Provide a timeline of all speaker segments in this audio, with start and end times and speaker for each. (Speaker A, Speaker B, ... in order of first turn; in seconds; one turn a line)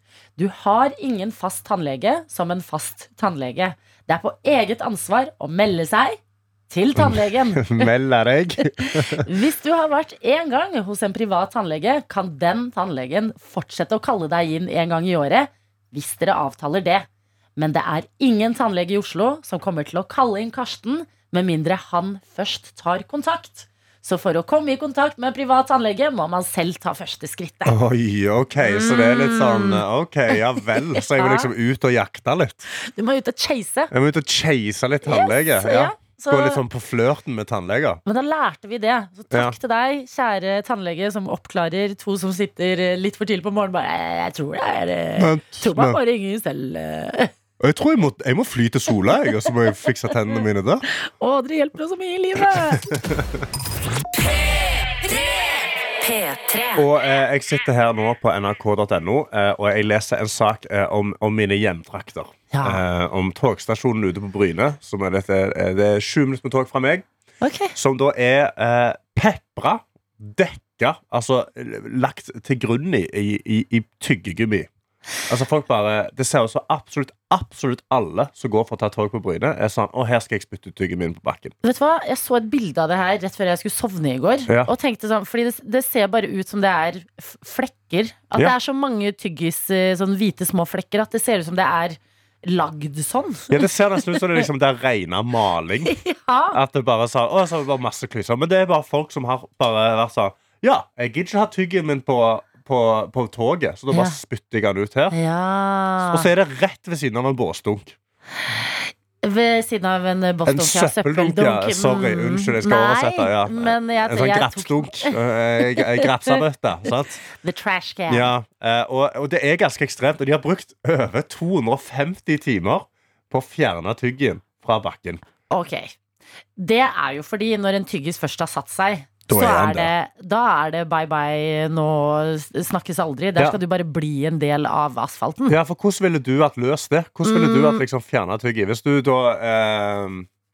Speaker A: 0.4-7.9
Speaker B: 7.0-9.3
Speaker A: 8.8-27.8
Speaker B: 27.7-32.7
Speaker A: 28.6-31.5
Speaker A: 32.7-33.9
Speaker B: 33.9-38.0
Speaker A: 35.0-36.6
Speaker A: 38.1-47.3
Speaker B: 45.2-46.0
Speaker B: 47.6-50.9
Speaker A: 50.9-52.9
Speaker B: 52.4-53.5
Speaker A: 56.0-56.8
Speaker B: 56.8-67.1
Speaker A: 62.5-62.8
Speaker A: 67.4-67.8
Speaker B: 67.8-74.7
Speaker B: 75.3-81.5
Speaker A: 81.6-94.4
Speaker B: 84.5-84.7
Speaker B: 93.5-96.0
Speaker A: 95.9-96.6
Speaker B: 96.5-105.2
Speaker A: 103.9-104.2
Speaker A: 105.1-106.3
Speaker B: 106.1-108.0
Speaker A: 108.5-116.4
Speaker B: 110.5-117.2
Speaker A: 117.4-118.3
Speaker B: 118.1-125.2
Speaker A: 125.5-125.9
Speaker A: 126.6-135.6
Speaker B: 129.3-129.9
Speaker B: 135.5-140.3
Speaker A: 137.2-137.8